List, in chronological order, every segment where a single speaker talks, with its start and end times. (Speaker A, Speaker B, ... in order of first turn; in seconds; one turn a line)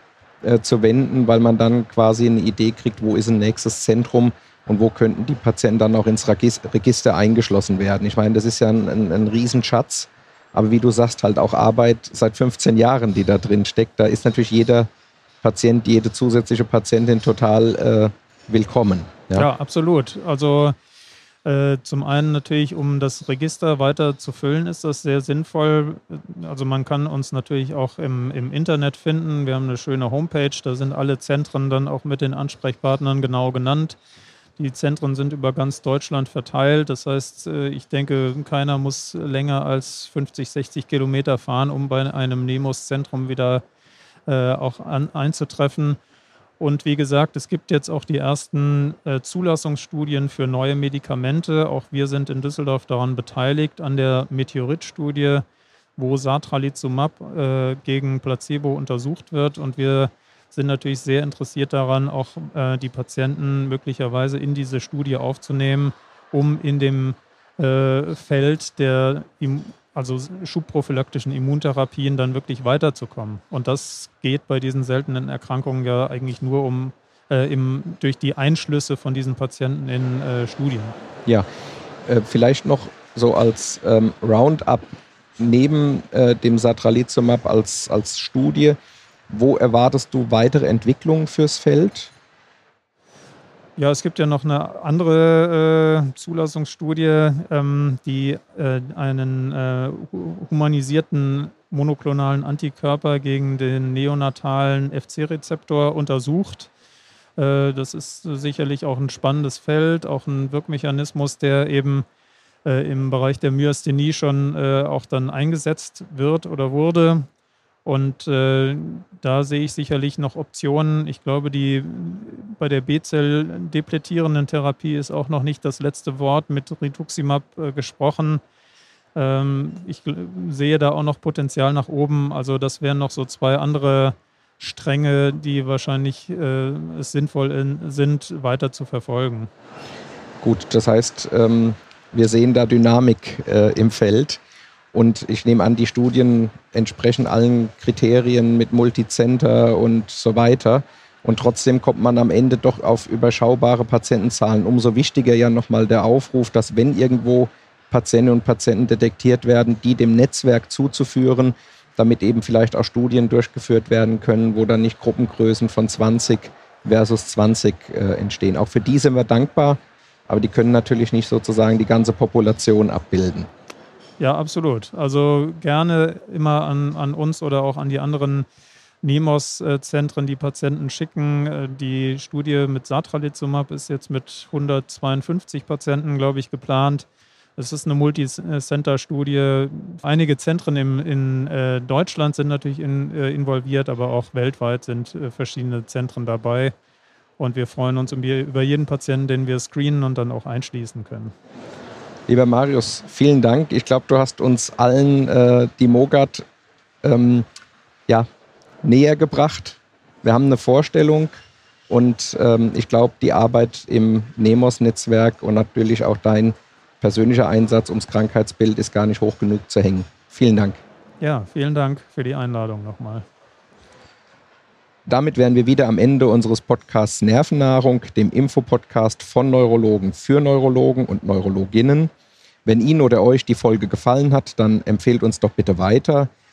Speaker A: 0.4-14.9
Speaker A: 15.4-19.5
Speaker B: 19.4-20.8
Speaker B: 21.4-34.0
Speaker B: 34.6-43.6
Speaker B: 44.3-46.0
Speaker B: 46.6-55.4
Speaker B: 56.0-81.0
Speaker A: 82.0-88.8
Speaker A: 89.3-92.1
Speaker B: 93.8-106.7
Speaker B: 107.4-112.0
Speaker B: 112.7-117.3
Speaker B: 117.8-128.4
Speaker B: 129.2-139.5
Speaker A: 140.4-144.4
Speaker A: 144.9-173.5
Speaker B: 174.2-178.5
Speaker B: 179.0-187.1
Speaker B: 187.6-196.7
Speaker B: 197.4-201.3
Speaker A: 202.3-206.4
Speaker A: 207.0-207.5
Speaker A: 208.8-211.3
Speaker A: 211.9-220.8
Speaker B: 221.2-223.2
Speaker A: 225.1-232.1
Speaker A: 232.7-236.3